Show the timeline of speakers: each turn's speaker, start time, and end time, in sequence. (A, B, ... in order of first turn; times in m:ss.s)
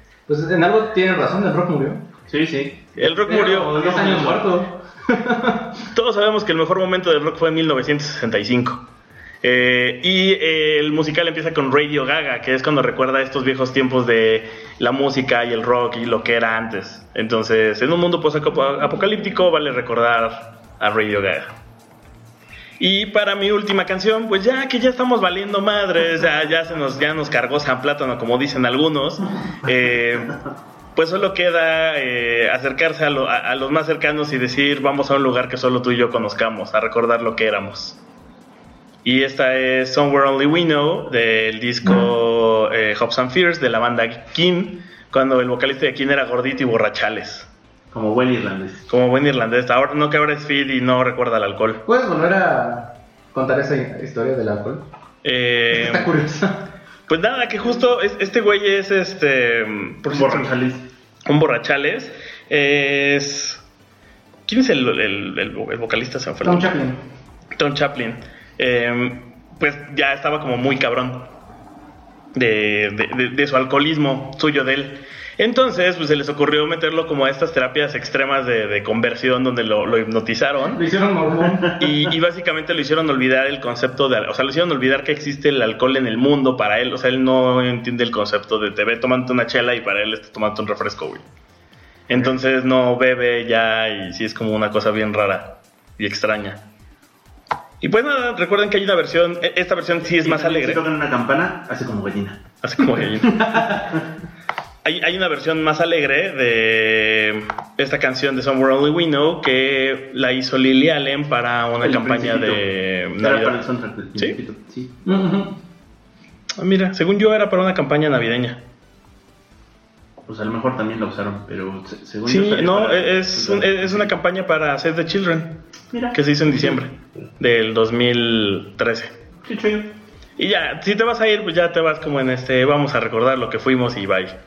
0:00.3-0:02.0 A
0:02.3-0:04.5 B
0:03.0-0:03.8 C
0:03.2-0:05.7 A
0:05.9-0:08.8 C
0:09.4-0:21.5 C
0:22.8-0:30.3 C
0:29.6-0:30.3 B
0:30.9-0:38.0 C
0:39.0-0:47.5 C
0:47.9-0:48.8 B
0:48.9-0:51.8 C
0:51.8-0:54.8 A
0:55.2-0:56.1 C
0:55.7-0:56.6 A
0:57.1-1:00.5 C
1:00.1-1:00.8 B
1:01.2-1:03.6 C
1:04.4-1:06.7 C
1:06.4-1:07.0 A
1:07.6-1:11.3 C
1:12.3-1:20.8 C
1:20.7-1:21.7 A
1:21.5-1:22.1 B
1:21.8-1:31.2 C
1:32.1-1:36.6 C
1:37.8-1:40.8 C
1:40.2-1:42.4 B
1:42.6-1:43.8 C
1:43.4-1:43.7 A
1:44.8-1:53.6 C
1:51.8-1:52.6 B
1:53.2-1:54.9 B
1:55.0-1:55.6 A
1:56.6-1:58.6 C
2:00.3-2:04.1 B
2:02.2-2:05.6 C
2:05.9-2:06.8 B
2:06.1-2:09.1 C
2:09.4-2:09.9 B
2:10.4-2:14.3 C